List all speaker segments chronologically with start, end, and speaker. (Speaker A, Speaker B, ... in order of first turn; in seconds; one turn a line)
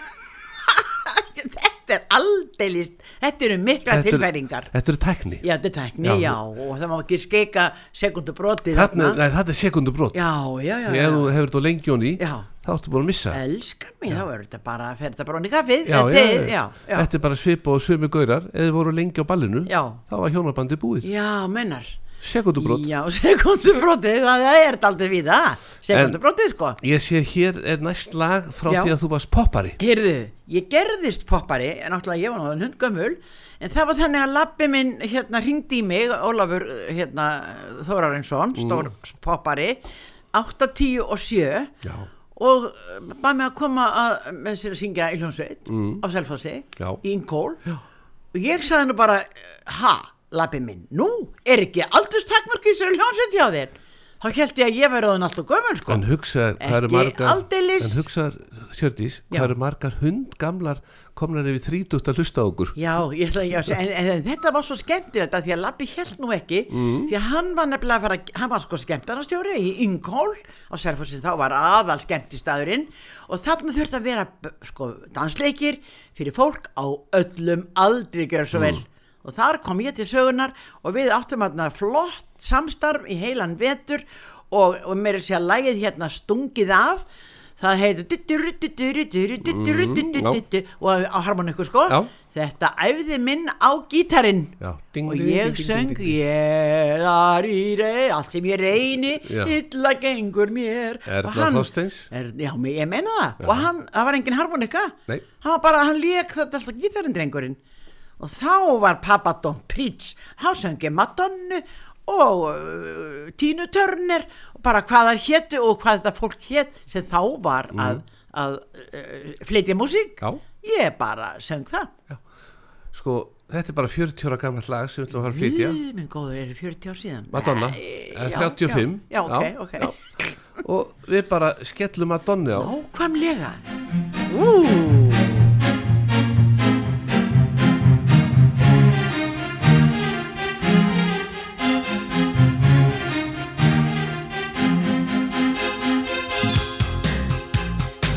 Speaker A: 0.7-4.7
Speaker B: 3.9-5.4
Speaker A: 5.4-9.2
Speaker B: 6.0-6.4
Speaker B: 8.7-10.2
Speaker A: 10.1-11.3
Speaker B: 10.8-13.4
Speaker A: 12.2-12.5
Speaker A: 13.3-17.1
Speaker B: 15.8-21.1
Speaker A: 19.7-20.0
Speaker A: 21.0-22.0
Speaker B: 22.2-22.9
Speaker A: 22.6-26.8
Speaker B: 25.9-26.2
Speaker B: 26.8-29.8
Speaker A: 29.8-39.8
Speaker B: 38.5-38.9
Speaker A: 40.3-41.7
Speaker A: 42.4-47.6
Speaker B: 45.7-46.0
Speaker A: 48.3-56.0
Speaker B: 55.9-62.8
Speaker A: 56.6-58.0
Speaker A: 62.8-87.0
Speaker B: 66.7-67.1
Speaker A: 87.6-94.5
Speaker B: 89.5-90.4
Speaker B: 94.6-96.2
Speaker A: 95.1-107.6
Speaker B: 99.2-99.5
Speaker B: 101.1-102.1
Speaker B: 103.4-103.7
Speaker A: 108.2-121.9
Speaker B: 117.7-118.0
Speaker B: 122.9-125.8
Speaker A: 125.2-130.3
Speaker B: 127.3-129.9
Speaker B: 130.6-132.7
Speaker A: 132.5-133.6
Speaker A: 134.3-135.4